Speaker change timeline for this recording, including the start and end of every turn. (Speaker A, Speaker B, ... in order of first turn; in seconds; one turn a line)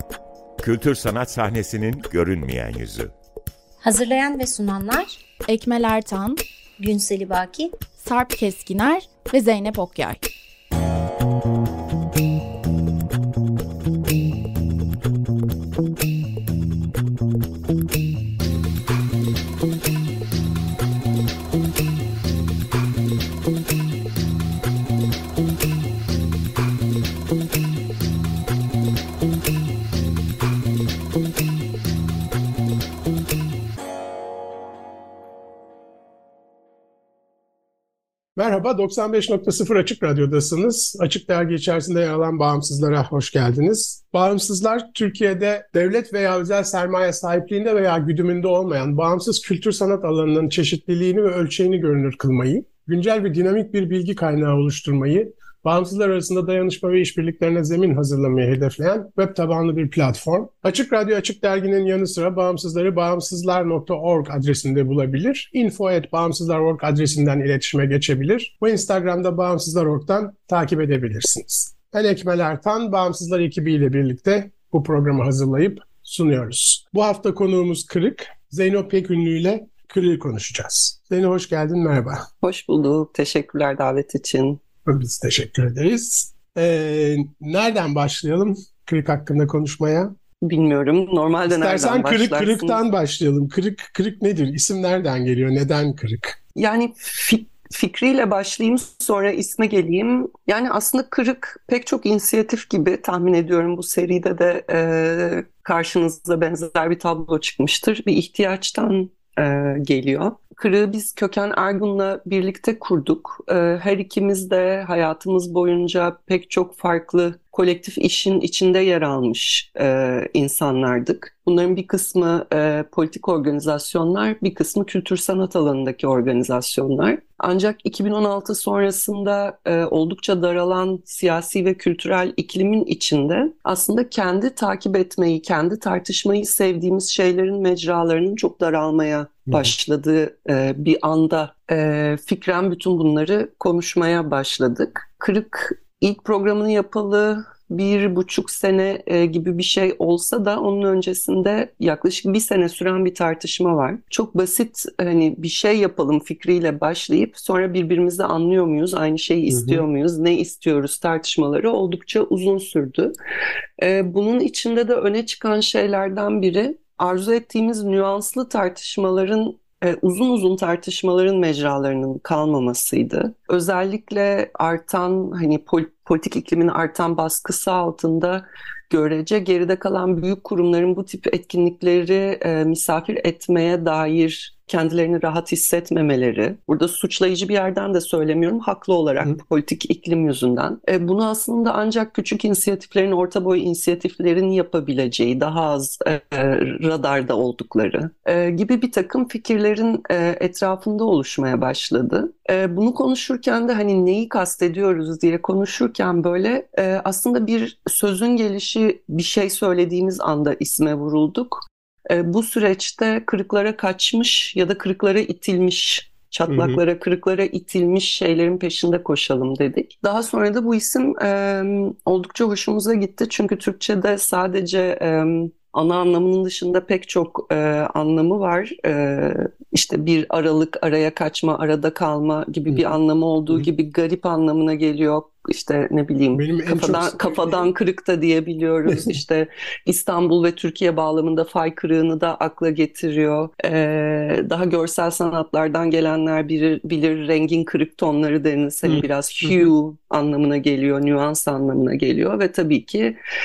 Speaker A: 0.6-3.1
Speaker B: 3.8-5.2
Speaker C: 5.5-6.4
Speaker B: 6.8-7.7
Speaker C: 8.0-10.2
Speaker D: 38.4-82.2
Speaker E: 82.4-84.6
Speaker D: 84.8-90.1
Speaker E: 90.4-92.8
Speaker D: 91.5-96.4
Speaker E: 96.6-163.1
Speaker D: 159.5-159.8
Speaker E: 163.8-253.2
Speaker D: 216.5-216.8
Speaker D: 236.3-237.7
Speaker D: 238.9-239.2
Speaker D: 248.9-249.7